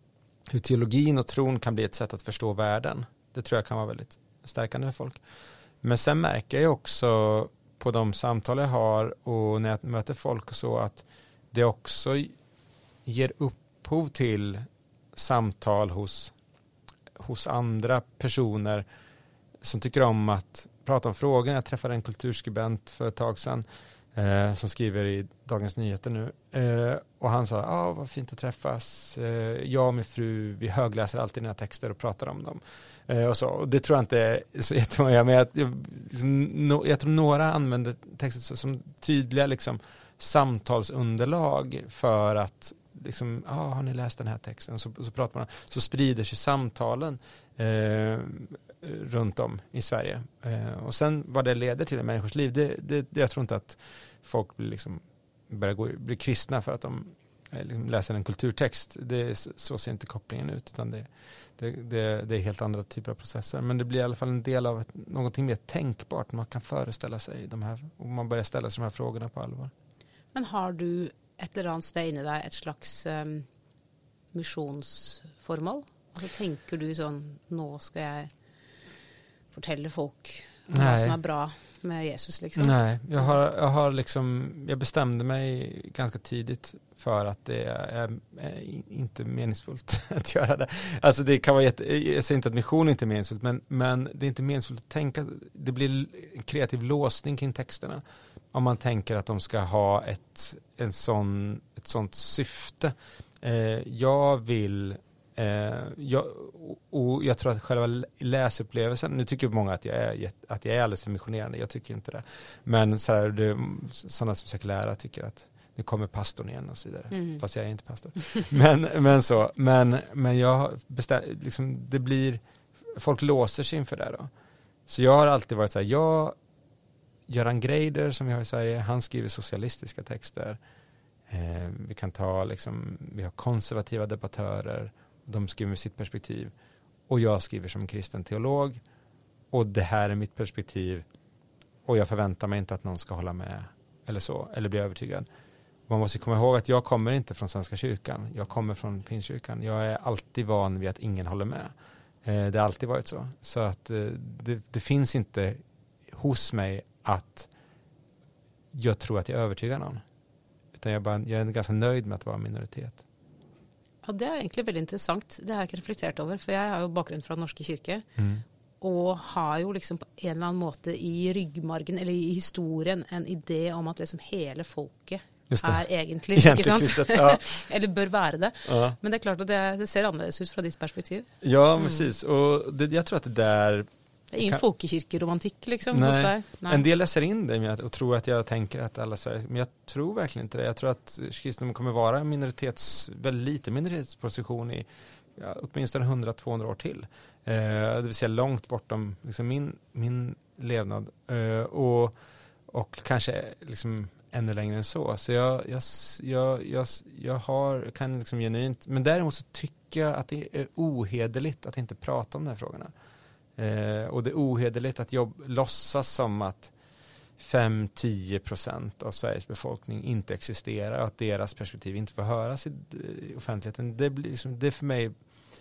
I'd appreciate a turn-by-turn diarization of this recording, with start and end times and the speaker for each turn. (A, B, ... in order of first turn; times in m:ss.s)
0:00.5-0:05.2 A
0:05.8-0:12.3 A
0:13.0-0:16.4 A
0:17.2-0:18.8 A
0:19.6-1:09.7 A
1:10.3-1:13.5 B
1:14.3-1:18.3 B
1:19.5-1:23.4 B
1:20.7-1:21.2 A
1:22.6-2:04.3 A
1:57.1-1:57.4 B
1:58.2-1:58.5 B
2:04.9-2:06.4 A
2:07.3-2:10.6 A
2:11.3-2:16.5 A
2:17.1-2:18.8 A
2:19.5-2:21.1 A
2:21.8-2:25.3 A
2:25.9-2:31.7 A
2:32.2-2:37.5 A
2:38.7-2:40.0 A
2:40.8-2:43.0 A
2:44.0-2:48.1 B
2:48.2-2:48.4 A
2:48.8-3:02.1 B
2:55.5-2:57.6 A
2:58.6-2:59.0 A
3:01.4-3:04.6 A
3:04.3-3:06.8 B
3:05.9-3:22.2 A
3:22.7-3:32.9 A
3:33.6-3:36.7 A
3:37.4-3:45.1 A